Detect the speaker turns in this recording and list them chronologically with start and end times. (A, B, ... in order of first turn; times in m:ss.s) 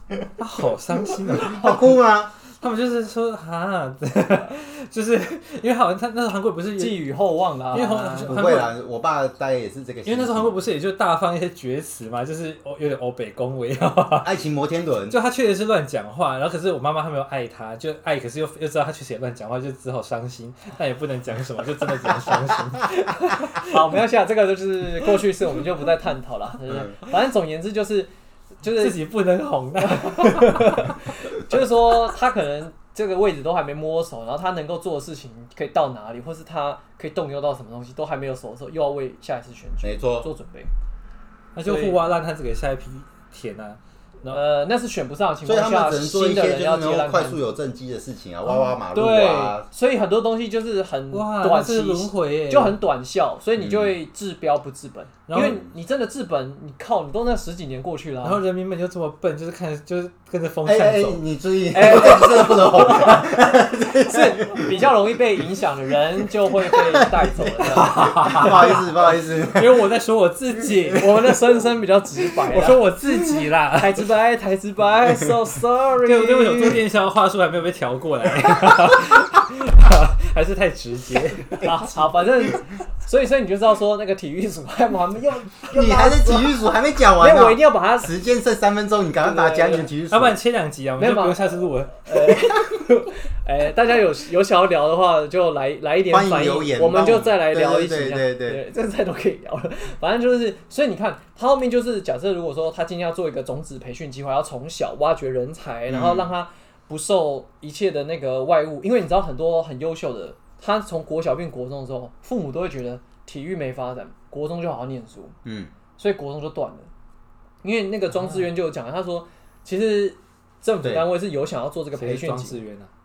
0:00.4-0:01.9 A
0:01.2-0:02.3 B
0:02.5-0:07.1 A
0:06.8-0:08.7 C
0:07.7-0:08.7 A
0:08.2-0:10.6 B
0:10.0-0:14.4 A
0:14.2-0:15.2 B
0:15.1-0:23.8 A
0:23.5-0:29.0 C
0:28.6-0:31.0 A
0:29.8-0:40.7 C
0:39.8-0:40.3 B
0:41.5-0:44.4 A
0:41.6-0:42.0 C
0:44.3-0:47.4 C
0:45.4-0:49.7 B
0:48.9-0:58.4 C
0:51.1-0:52.8 A
0:53.6-0:54.0 B
0:55.3-0:55.6 A
0:55.4-0:55.7 B
0:58.2-1:01.2 A
1:00.6-1:04.9 B
1:01.7-1:03.4 C
1:04.0-1:08.8 C
1:07.4-1:09.9 B
1:07.7-1:08.9 A
1:09.5-1:10.0 C
1:09.7-1:11.1 A
1:10.6-1:12.8 C
1:12.5-1:14.1 A
1:13.7-1:16.8 C
1:16.0-1:21.7 A
1:21.6-1:26.6 C
1:25.7-1:30.4 B
1:27.2-1:28.1 C
1:29.2-1:29.9 C
1:30.1-1:32.4 A
1:31.0-1:55.4 C
1:36.1-1:38.6 B
1:45.9-1:46.3 B
1:55.4-1:55.7 B
1:56.0-1:56.9 C
1:57.6-2:02.6 C
1:58.1-1:58.5 A
2:02.0-2:02.9 A